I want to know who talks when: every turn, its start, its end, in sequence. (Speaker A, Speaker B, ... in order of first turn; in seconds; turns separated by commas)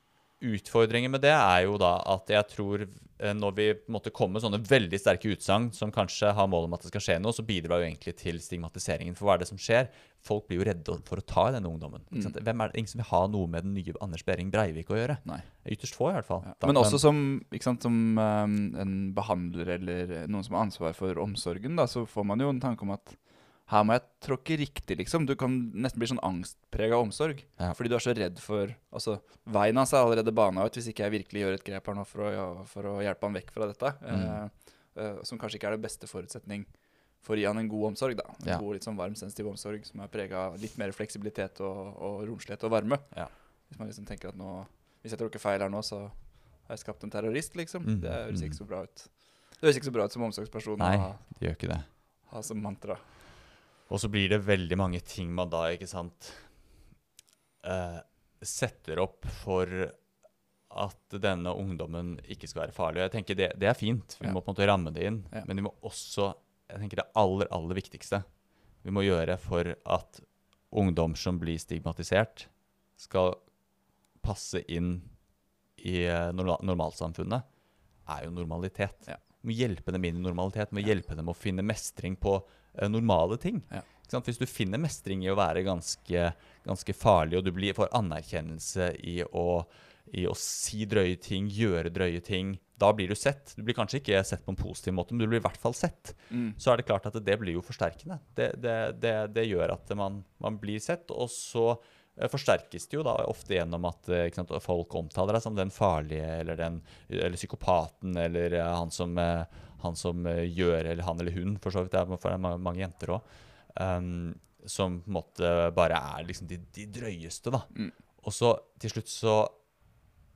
Speaker A: 0.4-17.0, Speaker B: 12.1-12.3, Speaker B: 16.4-51.4, Speaker A: 34.1-34.4, Speaker A: 47.8-48.6, Speaker A: 50.8-51.9, Speaker B: 52.2-53.0, Speaker A: 53.9-56.6, Speaker A: 57.6-60.0, Speaker A: 60.7-68.2, Speaker A: 68.8-73.5, Speaker A: 74.2-75.1, Speaker A: 75.8-77.4, Speaker A: 78.0-119.5, Speaker B: 96.3-96.6